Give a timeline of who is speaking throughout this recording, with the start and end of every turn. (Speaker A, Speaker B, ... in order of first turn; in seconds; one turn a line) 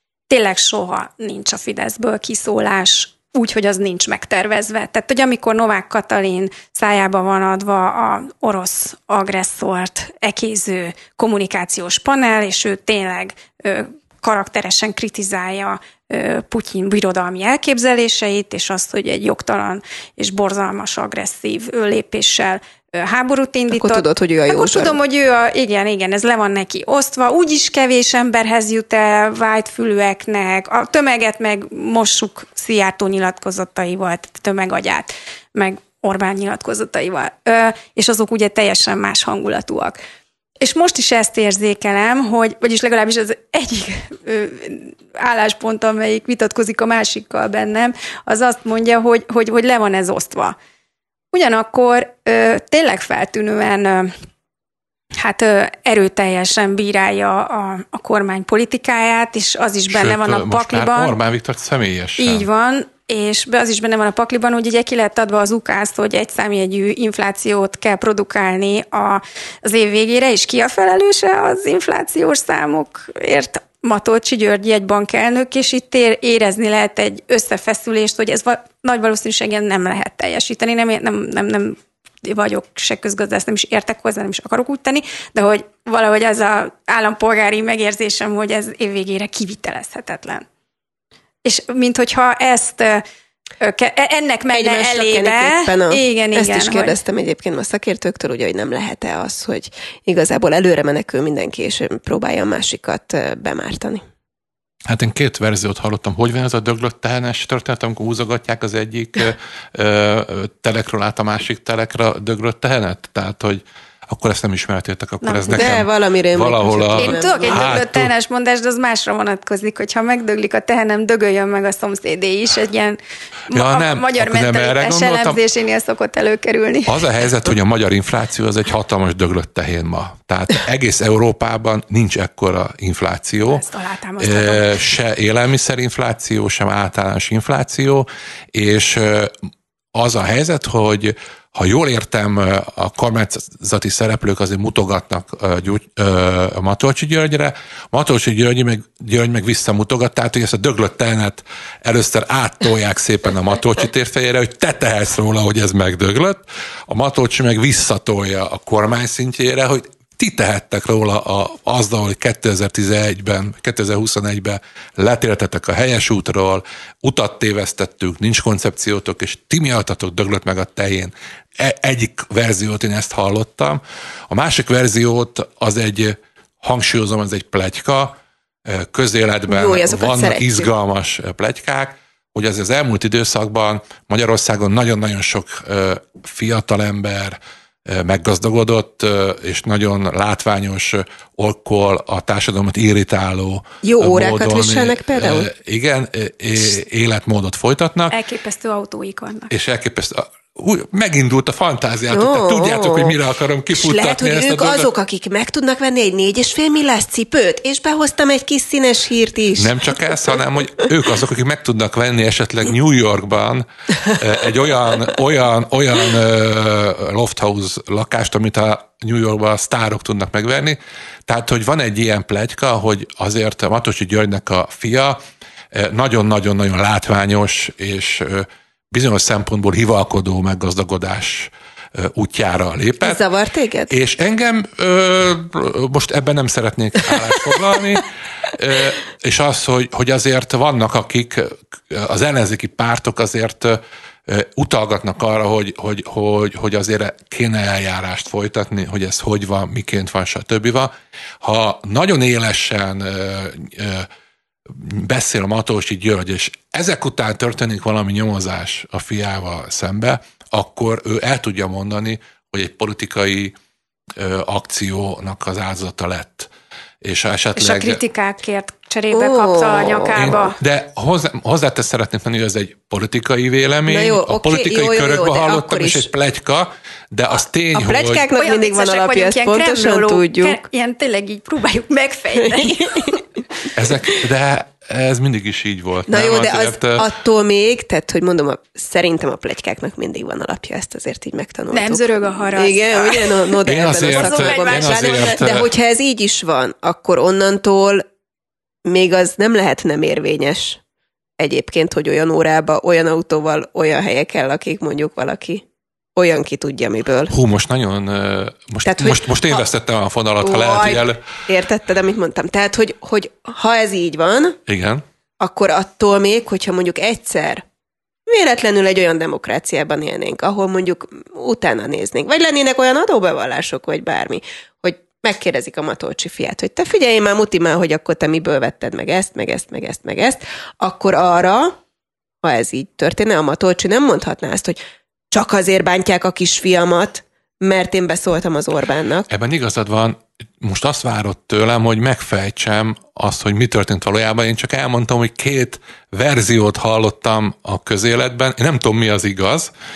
Speaker A: 0.3-40.0
Speaker B: 23.7-25.0
Speaker A: 40.6-50.6
Speaker A: 51.3-54.1
Speaker A: 55.2-61.2
Speaker C: 59.9-62.5
Speaker A: 62.2-90.5
Speaker A: 91.4-93.0
Speaker A: 93.6-97.0
Speaker B: 94.5-104.0
Speaker C: 104.9-118.1
Speaker A: 115.2-115.8
Speaker B: 115.5-117.6
Speaker A: 117.0-123.0
Speaker A: 123.5-127.0
Speaker C: 123.5-125.4
Speaker C: 126.9-133.7
Speaker A: 133.4-134.8
Speaker C: 134.2-139.3
Speaker C: 139.9-198.2
Speaker B: 179.5-180.7
Speaker B: 193.8-195.5
Speaker A: 198.1-199.5
Speaker C: 199.5-204.9
Speaker B: 202.1-203.2
Speaker B: 203.7-210.2
Speaker C: 209.6-225.2
Speaker C: 225.7-233.2
Speaker B: 233.0-233.9
Speaker C: 233.9-254.1
Speaker C: 254.7-263.6
Speaker C: 264.2-266.5
Speaker C: 267.0-268.0
Speaker A: 267.6-270.6
Speaker B: 269.1-270.4
Speaker C: 270.2-278.3
Speaker B: 273.9-276.1
Speaker B: 277.7-280.6
Speaker A: 278.3-283.2
Speaker B: 282.4-283.1
Speaker C: 283.8-287.1
Speaker B: 286.1-298.0
Speaker A: 291.7-295.5
Speaker C: 293.6-295.7
Speaker B: 298.9-300.8
Speaker B: 301.4-305.6
Speaker B: 306.2-307.3
Speaker C: 307.3-311.2
Speaker B: 308.9-309.6
Speaker B: 310.4-314.6
Speaker C: 314.7-315.0
Speaker B: 315.4-317.6
Speaker B: 318.3-331.8
Speaker B: 332.4-334.8
Speaker B: 335.3-339.3
Speaker C: 339.3-349.7